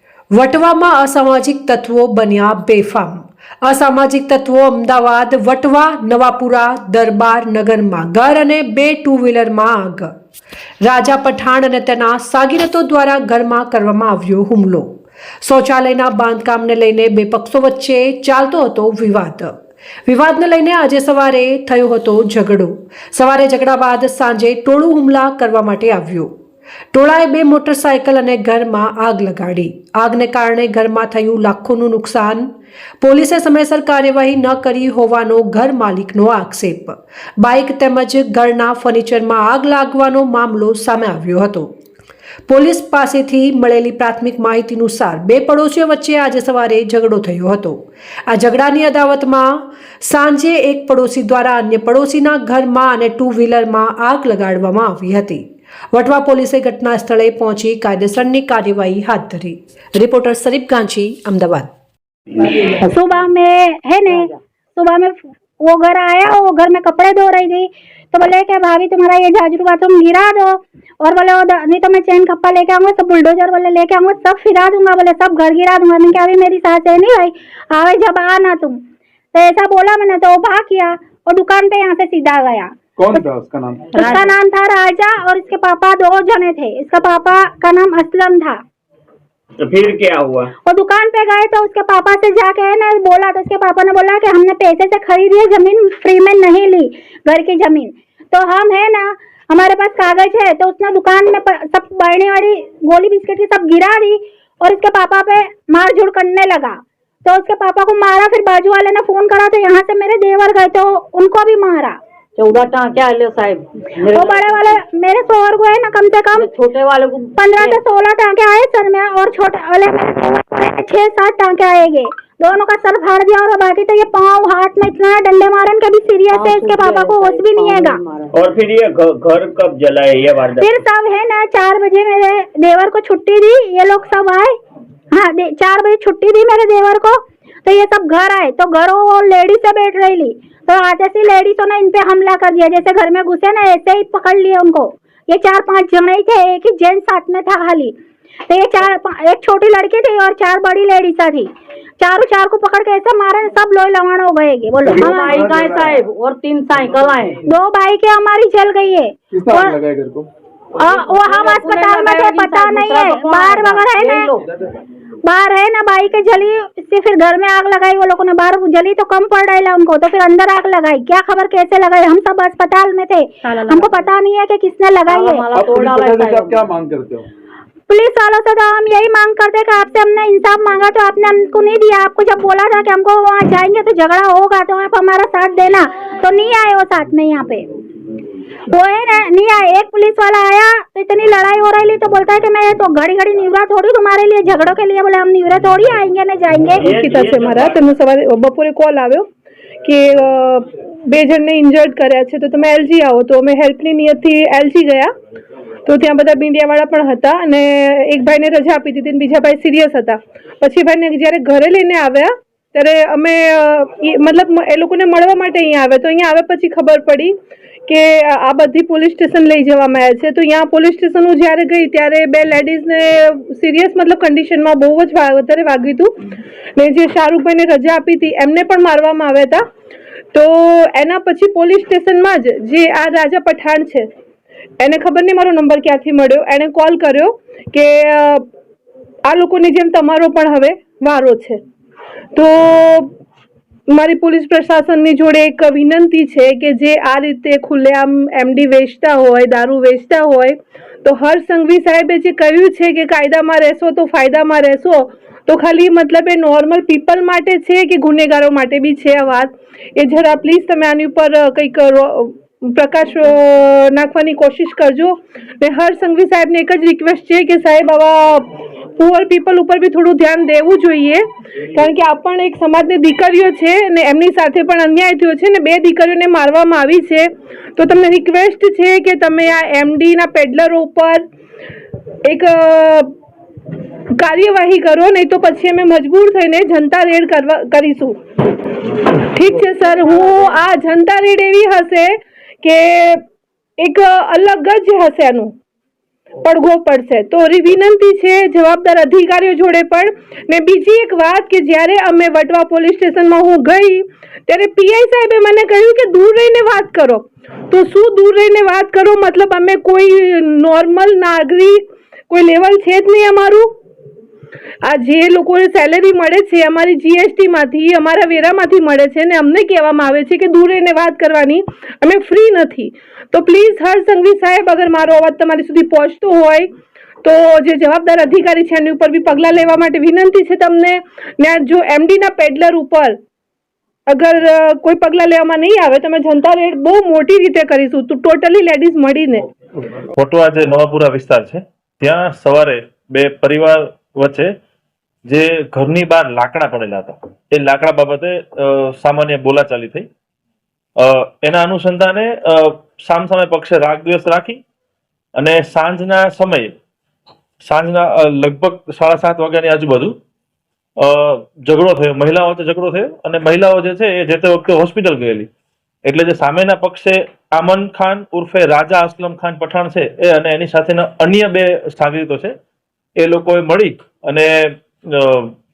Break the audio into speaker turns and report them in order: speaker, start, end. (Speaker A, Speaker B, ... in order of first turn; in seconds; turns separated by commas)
Speaker A: 0.3-10.1, Speaker A: 10.8-14.9, Speaker A: 15.4-19.5, Speaker A: 20.1-26.3, Speaker A: 26.9-32.5, Speaker A: 33.0-41.7, Speaker A: 42.5-61.7, Speaker B: 62.6-78.8, Speaker B: 79.3-83.2, Speaker C: 83.0-84.1, Speaker B: 83.9-88.6, Speaker D: 84.0-84.3, Speaker E: 89.6-90.5, Speaker B: 90.6-112.0, Speaker D: 112.4-114.8, Speaker B: 114.1-116.5, Speaker D: 116.3-117.8, Speaker B: 117.4-128.0, Speaker D: 126.3-128.3, Speaker E: 128.3-130.7, Speaker B: 130.6-134.5, Speaker B: 135.1-147.9, Speaker B: 148.5-151.5, Speaker B: 152.0-155.4, Speaker C: 154.8-156.1, Speaker D: 155.0-157.4, Speaker B: 157.5-159.8, Speaker C: 159.3-160.3, Speaker B: 160.8-164.3, Speaker D: 160.8-164.4, Speaker B: 165.2-175.4, Speaker D: 173.4-174.0, Speaker D: 175.1-176.6, Speaker C: 175.5-177.3, Speaker B: 177.9-187.7, Speaker B: 188.7-196.9, Speaker F: 196.8-199.3, Speaker E: 196.8-197.8, Speaker F: 199.8-205.1, Speaker F: 205.8-217.3, Speaker F: 217.9-226.2, Speaker F: 226.8-229.6, Speaker F: 230.3-234.1, Speaker F: 234.8-238.4, Speaker F: 239.3-241.6, Speaker F: 242.3-243.1, Speaker F: 243.9-281.2, Speaker F: 282.2-283.1, Speaker F: 284.2-288.2, Speaker F: 289.2-293.2, Speaker F: 293.8-295.5, Speaker F: 296.4-313.7, Speaker F: 314.8-326.7, Speaker F: 327.2-333.2, Speaker F: 334.1-339.5, Speaker G: 340.1-344.5, Speaker G: 345.2-350.1, Speaker G: 351.0-354.6, Speaker G: 355.4-356.7, Speaker G: 357.6-360.1, Speaker G: 361.0-365.5, Speaker G: 366.0-372.5, Speaker G: 373.2-375.5